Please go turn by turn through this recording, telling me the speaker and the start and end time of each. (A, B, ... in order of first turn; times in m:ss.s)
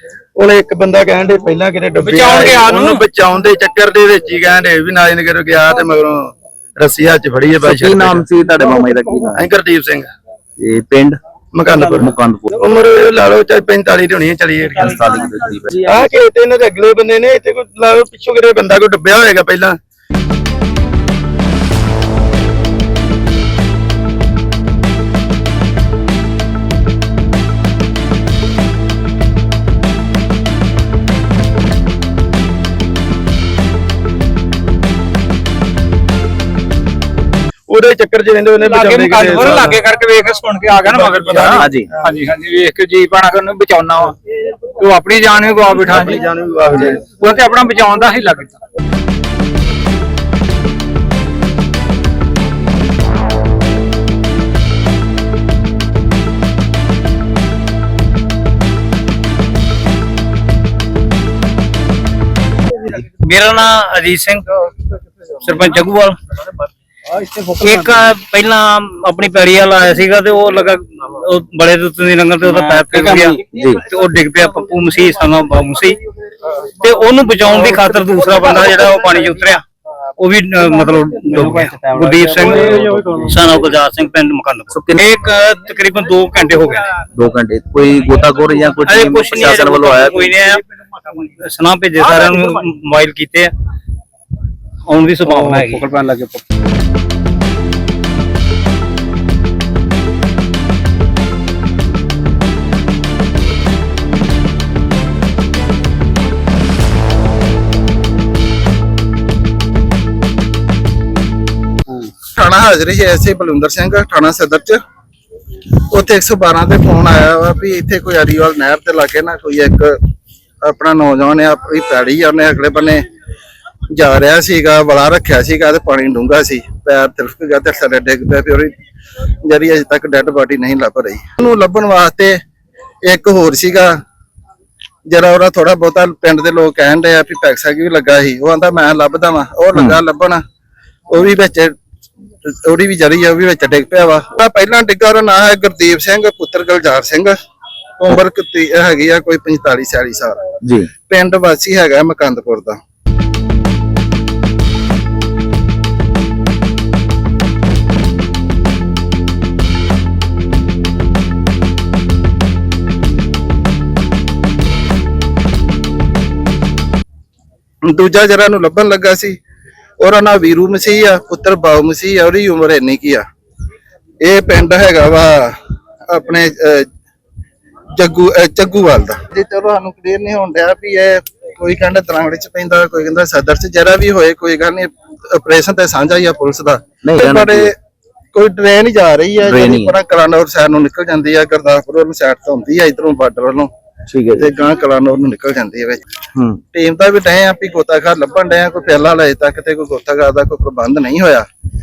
0:00.4-0:08.3 A
0:02.0-0:03.0 B
0:07.6-0:09.5 C
0:09.3-0:10.1 A
0:10.6-0:11.2 C
0:11.5-0:15.0 A
0:12.0-0:12.6 C
0:14.7-0:15.9 C
0:14.9-0:15.8 B
0:15.8-0:19.8 A
0:37.7-0:39.8 A
0:38.6-0:46.2 B
0:40.8-0:41.9 A
0:41.5-0:41.9 C
0:45.8-0:47.0 A
0:46.9-0:48.6 B
1:02.9-1:04.4 D
1:05.4-1:06.2 D
1:07.2-1:07.7 B
1:07.6-1:16.0 D
1:12.5-1:13.4 B
1:13.5-1:13.8 C
1:16.6-1:19.6 D
1:20.2-1:26.9 D
1:21.3-1:23.3 B
1:24.7-1:25.0 C
1:27.1-1:30.3 C
1:28.8-1:33.5 D
1:34.9-1:35.8 D
1:35.2-1:36.4 B
1:52.2-1:54.8 E
1:55.9-2:00.0 E
2:00.6-2:03.0 E
2:03.9-2:08.7 E
2:09.4-2:12.4 E
2:13.0-2:13.9 E
2:15.1-2:20.4 E
2:21.1-2:21.7 E
2:22.4-2:27.3 E
2:28.0-2:30.4 E
2:30.6-2:30.9 C
2:31.1-2:32.8 E
2:47.8-2:49.3 E
2:50.0-2:53.2 E
2:54.2-2:55.5 E
2:56.1-2:56.9 E
2:58.0-3:07.7 E
3:07.0-3:07.7 C
3:08.3-3:13.7 E
3:09.4-3:09.9 C
3:14.1-3:14.5 C
3:14.4-3:16.0 E
3:16.4-3:16.6 C
3:16.7-3:21.4 E